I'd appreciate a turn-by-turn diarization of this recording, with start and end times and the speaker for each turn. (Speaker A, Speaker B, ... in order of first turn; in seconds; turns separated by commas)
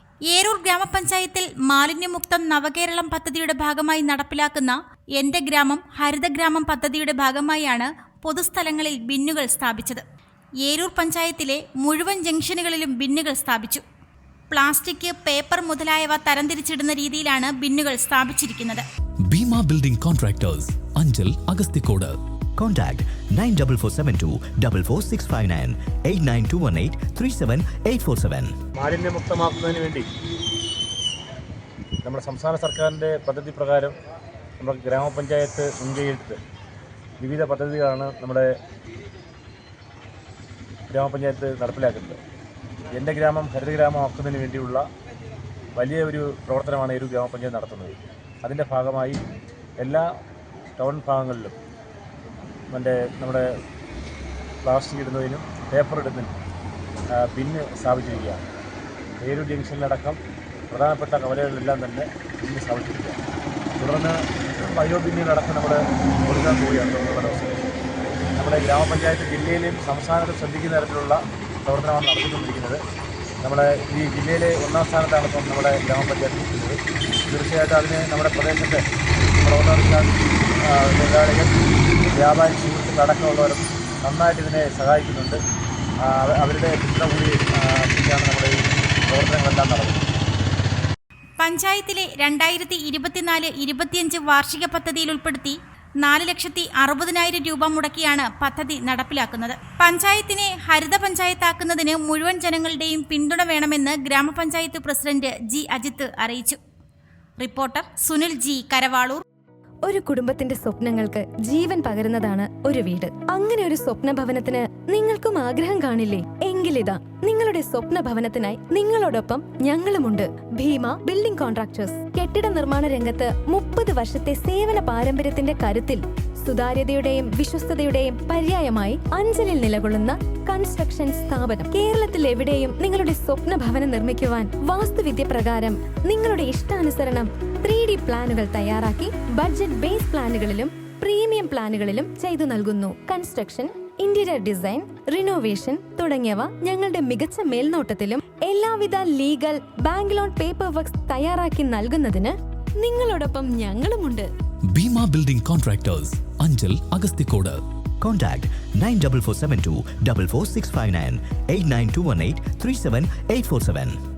Speaker A: 0.3-10.0, Speaker A: 10.6-13.8, Speaker A: 14.5-18.8, Speaker B: 19.3-22.1, Speaker C: 22.6-28.5, Speaker D: 28.8-30.1, Speaker D: 32.0-33.9, Speaker D: 34.6-36.4, Speaker D: 37.2-38.5, Speaker D: 40.9-42.2, Speaker D: 42.9-44.8, Speaker D: 45.8-49.2, Speaker D: 49.8-50.1, Speaker D: 50.7-51.5, Speaker D: 52.7-53.5, Speaker D: 54.6-56.3, Speaker D: 57.1-58.4, Speaker D: 59.2-60.2, Speaker D: 60.7-63.2, Speaker D: 63.8-67.6, Speaker D: 68.4-72.8, Speaker D: 73.4-76.8, Speaker D: 77.3-78.8, Speaker D: 79.4-80.1, Speaker D: 80.7-81.6, Speaker D: 82.2-85.4, Speaker D: 86.0-90.0, Speaker A: 91.4-106.6, Speaker A: 107.4-109.2, Speaker E: 109.8-154.3, Speaker B: 154.7-157.6, Speaker C: 158.0-164.0